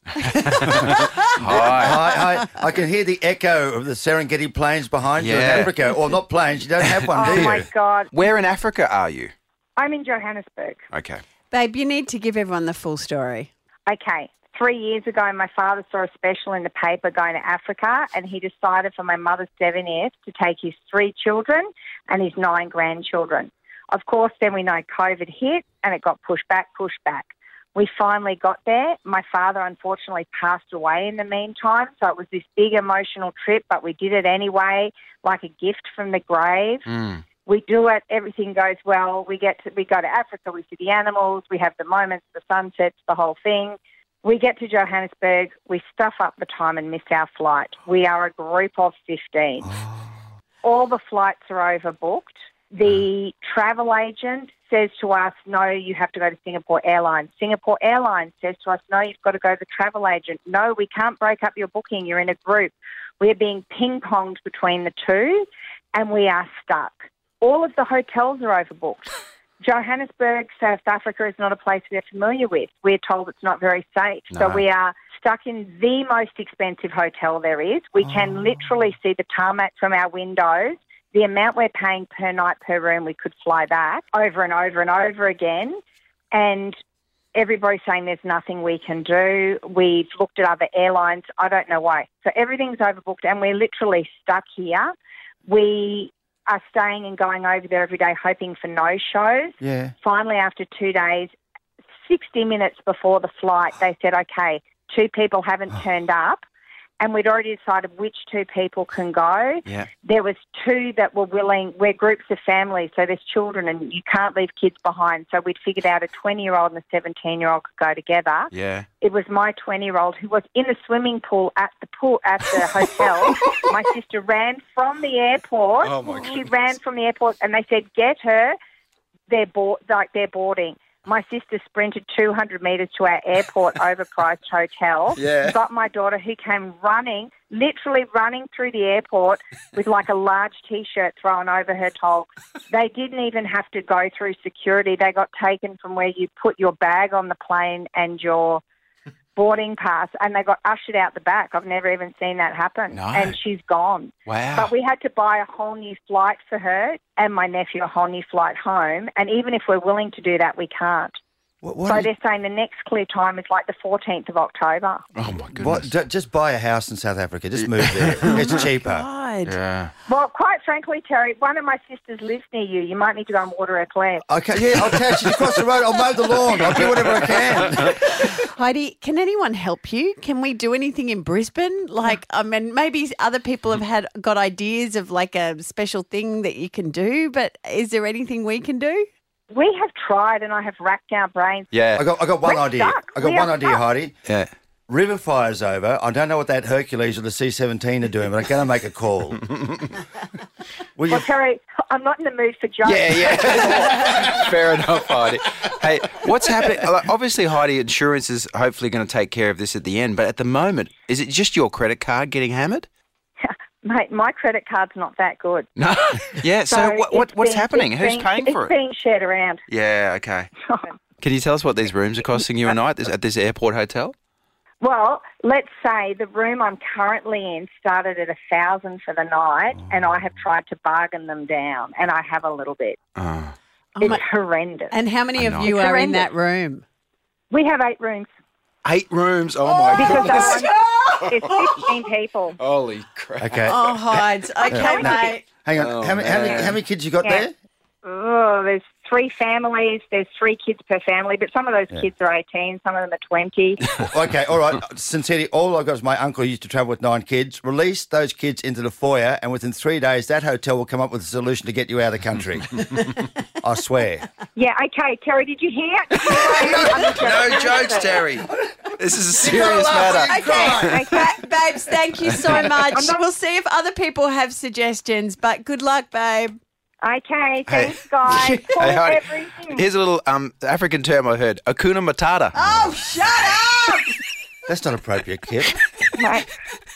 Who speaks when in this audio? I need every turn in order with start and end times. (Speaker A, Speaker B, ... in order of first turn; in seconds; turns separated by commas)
Speaker A: 0.2-2.0, Speaker B: 0.5-2.0, Speaker C: 0.8-7.7, Speaker A: 5.2-5.7, Speaker A: 6.8-7.5, Speaker D: 7.1-8.1, Speaker A: 8.1-9.3, Speaker D: 9.8-10.8, Speaker A: 10.9-11.2, Speaker B: 11.5-13.5, Speaker D: 13.9-36.8, Speaker A: 36.9-37.2, Speaker D: 37.5-49.7, Speaker C: 49.6-50.1, Speaker D: 50.6-69.1, Speaker D: 69.6-85.8, Speaker A: 74.3-74.6, Speaker D: 86.3-86.8, Speaker D: 87.3-94.9, Speaker D: 95.5-101.3, Speaker C: 99.6-99.9, Speaker D: 102.0-106.4, Speaker D: 107.0-118.5, Speaker A: 118.5-118.9, Speaker D: 119.0-128.5, Speaker A: 125.8-126.5, Speaker D: 129.3-148.6, Speaker A: 135.2-135.6, Speaker D: 149.3-161.1, Speaker A: 152.9-153.4, Speaker A: 154.3-154.7, Speaker C: 161.6-162.1, Speaker D: 161.9-165.0, Speaker A: 165.2-165.9, Speaker C: 165.5-169.1, Speaker A: 167.6-168.5, Speaker B: 168.3-169.6, Speaker A: 169.4-169.9, Speaker D: 170.1-174.2, Speaker C: 174.3-178.0, Speaker A: 176.7-177.2, Speaker B: 177.8-189.1, Speaker D: 189.5-191.7, Speaker A: 191.7-192.0, Speaker C: 191.9-194.2, Speaker D: 192.4-193.8, Speaker A: 194.2-194.5, Speaker C: 194.9-199.4, Speaker A: 199.5-199.9, Speaker C: 201.0-201.2, Speaker D: 201.1-204.3, Speaker A: 202.8-212.9, Speaker D: 213.4-215.7, Speaker A: 215.8-218.7, Speaker D: 216.7-219.6, Speaker A: 219.7-220.5, Speaker D: 220.7-220.9, Speaker A: 221.2-224.1, Speaker D: 224.8-233.0, Speaker A: 233.2-233.5, Speaker B: 234.0-234.2, Speaker D: 234.0-234.9, Speaker B: 234.9-236.8, Speaker A: 235.4-235.7, Speaker D: 235.6-236.3, Speaker D: 237.5-238.3, Speaker A: 238.8-241.9, Speaker B: 239.9-240.6, Speaker D: 239.9-240.7, Speaker D: 241.2-242.6, Speaker A: 242.6-244.0, Speaker C: 243.4-247.5, Speaker B: 243.7-245.4, Speaker A: 244.6-245.0, Speaker A: 245.8-246.8, Speaker D: 248.0-253.8, Speaker C: 254.0-263.1, Speaker C: 263.6-264.2, Speaker D: 264.6-268.2, Speaker A: 266.3-271.2, Speaker C: 269.4-271.1, Speaker B: 270.3-276.6, Speaker A: 272.3-272.6, Speaker D: 272.9-273.2, Speaker D: 277.0-279.8, Speaker A: 277.7-282.6, Speaker B: 282.5-284.1, Speaker C: 284.7-285.8, Speaker D: 286.2-286.5